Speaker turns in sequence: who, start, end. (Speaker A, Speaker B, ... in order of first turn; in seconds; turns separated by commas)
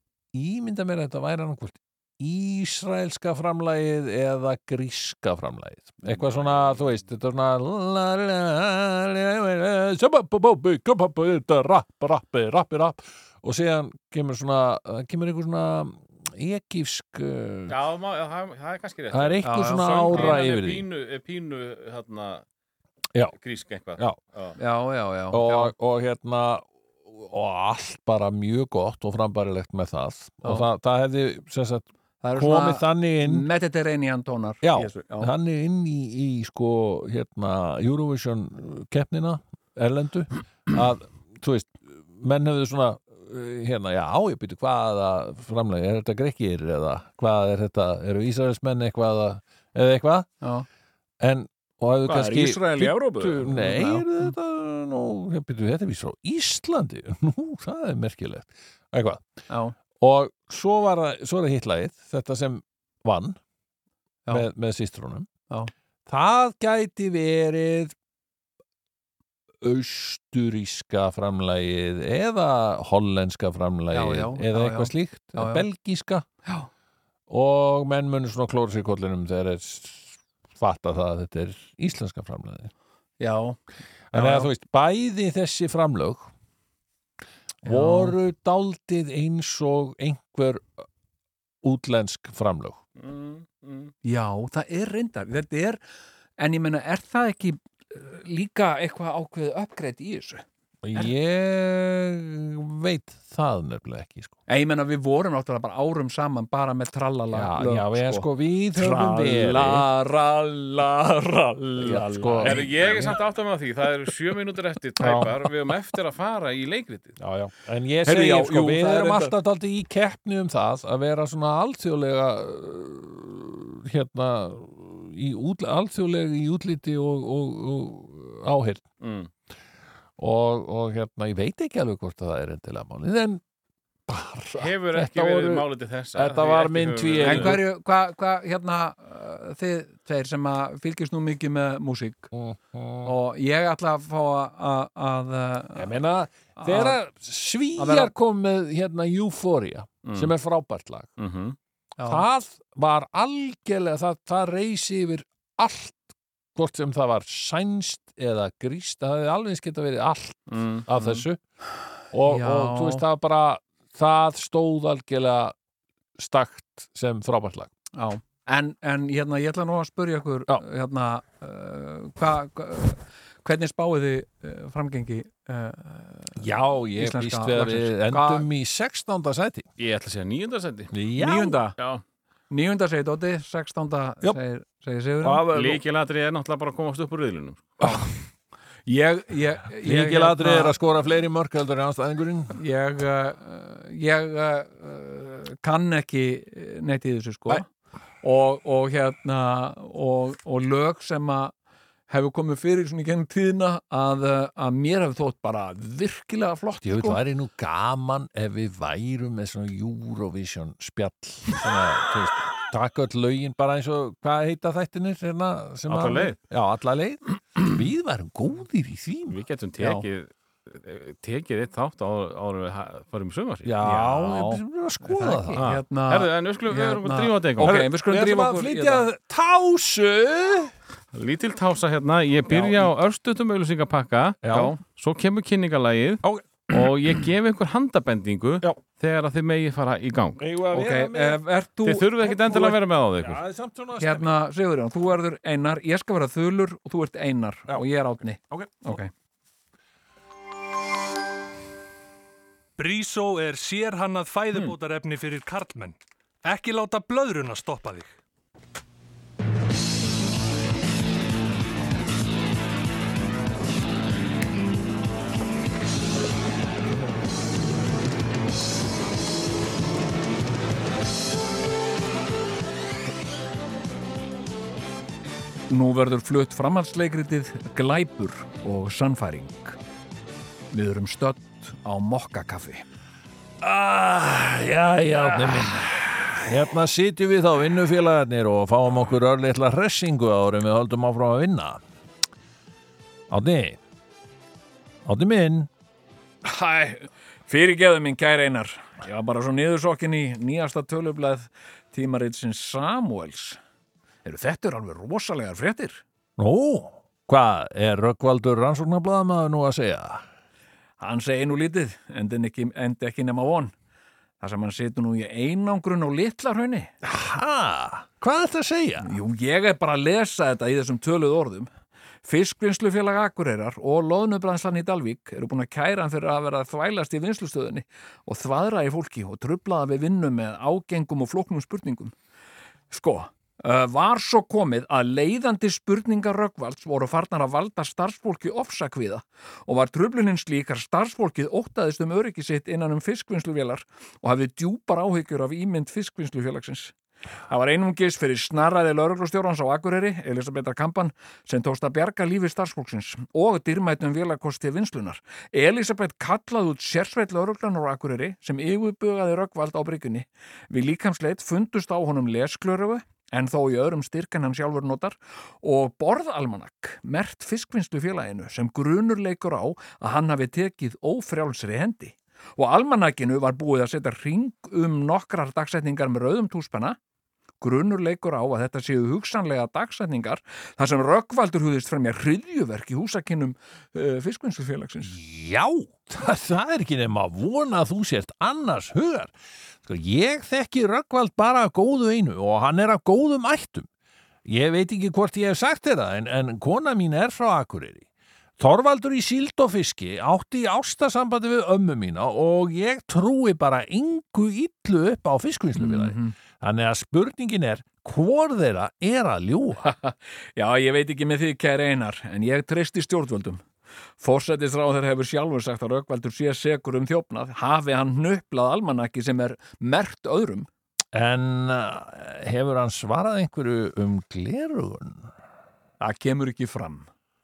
Speaker A: 0.3-17.7, Speaker B: 17.7-22.4, Speaker A: 19.1-20.8, Speaker C: 19.4-20.4, Speaker B: 23.3-24.6, Speaker C: 24.6-25.7, Speaker A: 25.3-33.5, Speaker C: 32.2-35.3, Speaker A: 34.6-50.3, Speaker A: 51.2-59.2, Speaker C: 52.0-54.3, Speaker C: 59.5-59.7, Speaker A: 60.0-63.4, Speaker A: 64.3-65.3, Speaker A: 66.1-67.9, Speaker A: 69.6-76.2, Speaker C: 73.9-75.6, Speaker A: 77.3-82.7, Speaker C: 83.2-83.6, Speaker A: 84.1-86.3, Speaker C: 84.1-84.5, Speaker C: 87.6-88.1, Speaker A: 87.7-90.8, Speaker A: 91.6-92.8, Speaker B: 93.0-93.9, Speaker C: 94.0-95.8, Speaker C: 96.4-100.4, Speaker A: 100.8-104.3, Speaker C: 104.5-112.7, Speaker A: 107.3-109.9, Speaker A: 111.8-113.2, Speaker B: 112.4-117.2, Speaker A: 115.0-115.5, Speaker A: 117.2-128.8, Speaker C: 118.0-119.3, Speaker B: 129.0-129.3, Speaker A: 130.2-133.4, Speaker A: 134.1-137.6, Speaker B: 134.6-137.6, Speaker C: 137.2-142.3, Speaker A: 142.3-143.1, Speaker C: 143.0-145.9, Speaker A: 145.7-151.1, Speaker C: 146.6-147.0, Speaker C: 147.8-148.1, Speaker B: 150.0-150.3, Speaker B: 151.2-151.6, Speaker C: 152.0-152.2, Speaker A: 152.0-161.4, Speaker B: 160.5-161.2, Speaker A: 162.1-165.5, Speaker C: 162.2-163.0, Speaker A: 166.2-167.7, Speaker C: 167.9-178.5, Speaker A: 176.4-179.7, Speaker B: 179.8-180.9, Speaker A: 180.9-181.6, Speaker C: 181.2-181.7, Speaker B: 181.8-182.0, Speaker C: 182.5-185.4, Speaker A: 185.2-185.8, Speaker B: 185.5-187.7, Speaker C: 187.8-188.1, Speaker C: 188.8-190.7, Speaker A: 189.8-192.6, Speaker C: 192.5-197.7, Speaker C: 198.2-201.5, Speaker C: 202.1-207.2, Speaker A: 206.8-219.4, Speaker B: 215.9-216.4, Speaker B: 219.3-223.7, Speaker C: 219.8-220.0, Speaker A: 223.6-225.6, Speaker C: 223.8-229.0, Speaker B: 225.5-227.8, Speaker A: 227.6-230.7, Speaker B: 231.1-240.4, Speaker A: 232.5-232.9, Speaker A: 234.4-234.7, Speaker C: 234.5-234.8, Speaker A: 236.2-236.8, Speaker A: 240.4-241.4, Speaker C: 240.7-242.8, Speaker B: 241.8-243.4, Speaker A: 242.5-244.3, Speaker C: 244.0-249.1, Speaker A: 248.5-249.0, Speaker D: 252.8-258.1, Speaker C: 275.7-279.8, Speaker C: 280.7-282.8, Speaker A: 283.6-291.8, Speaker A: 293.3-293.8, Speaker A: 295.0-295.7, Speaker C: 296.4-303.6, Speaker C: 304.2-306.0, Speaker A: 306.4-310.2, Speaker C: 311.0-313.7, Speaker C: 314.4-316.9, Speaker A: 317.0-319.1, Speaker C: 319.0-321.7, Speaker C: 322.2-332.1, Speaker C: 332.9-346.9, Speaker C: 347.5-377.0, Speaker C: 377.6-385.1, Speaker A: 385.1-393.9, Speaker A: 394.4-398.1, Speaker A: 398.6-409.9, Speaker C: 405.8-406.3, Speaker C: 409.8-413.6, Speaker C: 414.2-420.7, Speaker A: 421.1-425.3, Speaker C: 426.0-427.1